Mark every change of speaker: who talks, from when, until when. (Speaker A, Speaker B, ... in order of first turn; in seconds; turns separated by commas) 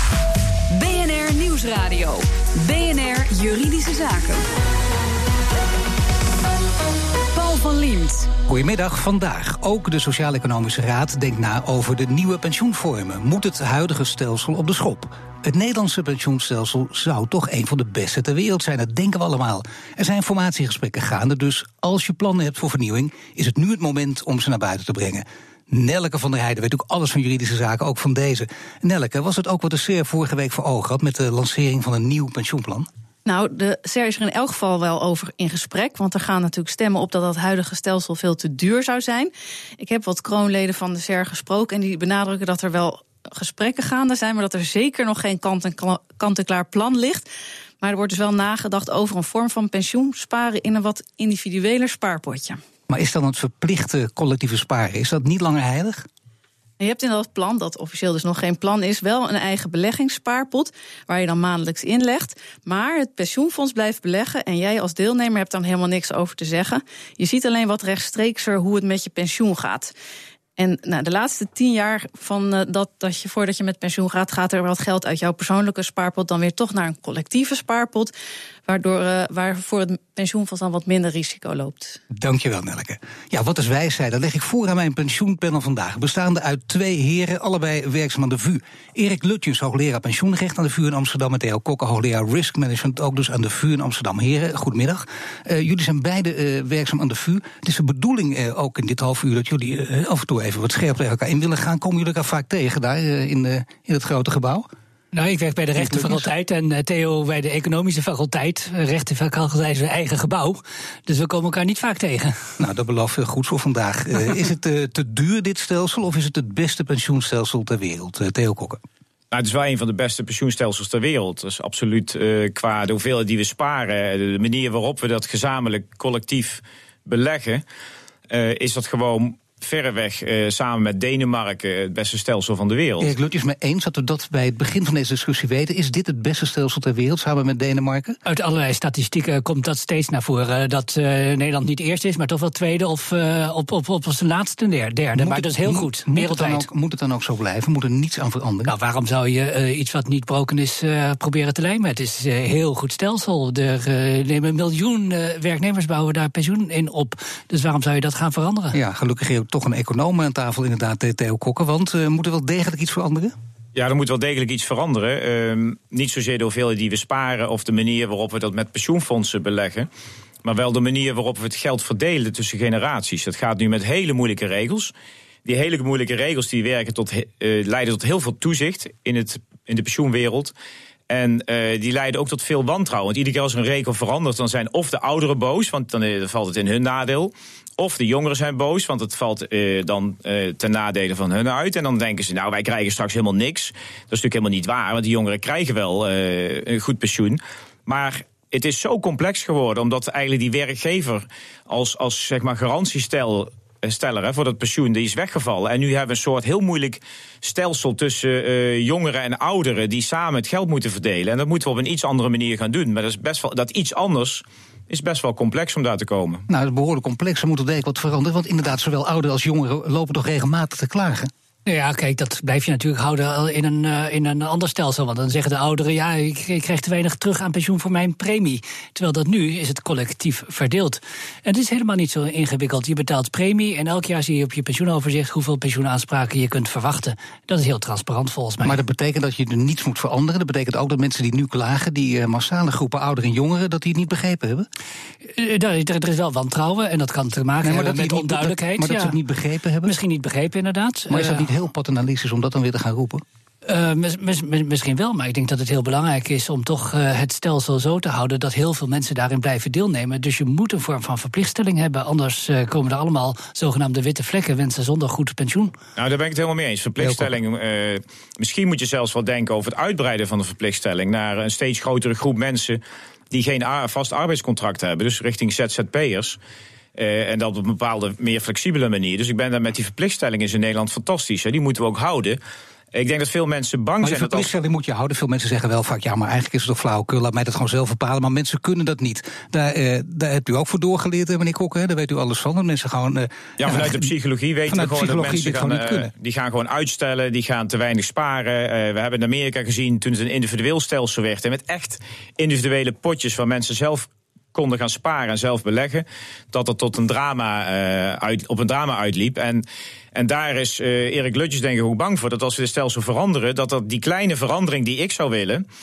Speaker A: 0.7-4.5, Speaker A: 7.3-8.3, Speaker B: 8.5-32.9, Speaker C: 33.2-47.2, Speaker C: 47.8-52.6, Speaker B: 52.9-56.1, Speaker C: 56.8-69.9, Speaker C: 70.6-78.1, Speaker C: 78.7-82.0, Speaker B: 82.1-104.7, Speaker D: 105.1-112.5, Speaker B: 105.8-106.3, Speaker B: 112.6-118.8, Speaker E: 119.3-127.6, Speaker E: 128.3-133.1, Speaker B: 133.0-138.2, Speaker D: 138.3-146.7, Speaker B: 145.2-148.7, Speaker D: 148.7-158.8, Speaker B: 158.7-163.3, Speaker E: 163.8-169.9, Speaker E: 170.4-174.9, Speaker E: 175.4-180.5, Speaker E: 181.1-216.4, Speaker B: 216.5-221.3, Speaker D: 221.7-238.8, Speaker B: 238.6-244.7, Speaker D: 245.3-249.2, Speaker B: 247.6-249.9, Speaker D: 249.8-251.5, Speaker B: 251.1-253.2, Speaker D: 253.7-265.8, Speaker E: 266.0-272.8, Speaker B: 267.0-267.3, Speaker E: 273.3-276.4, Speaker E: 276.9-282.4, Speaker E: 282.9-284.5, Speaker B: 284.0-294.1, Speaker E: 293.6-315.6, Speaker B: 294.7-296.1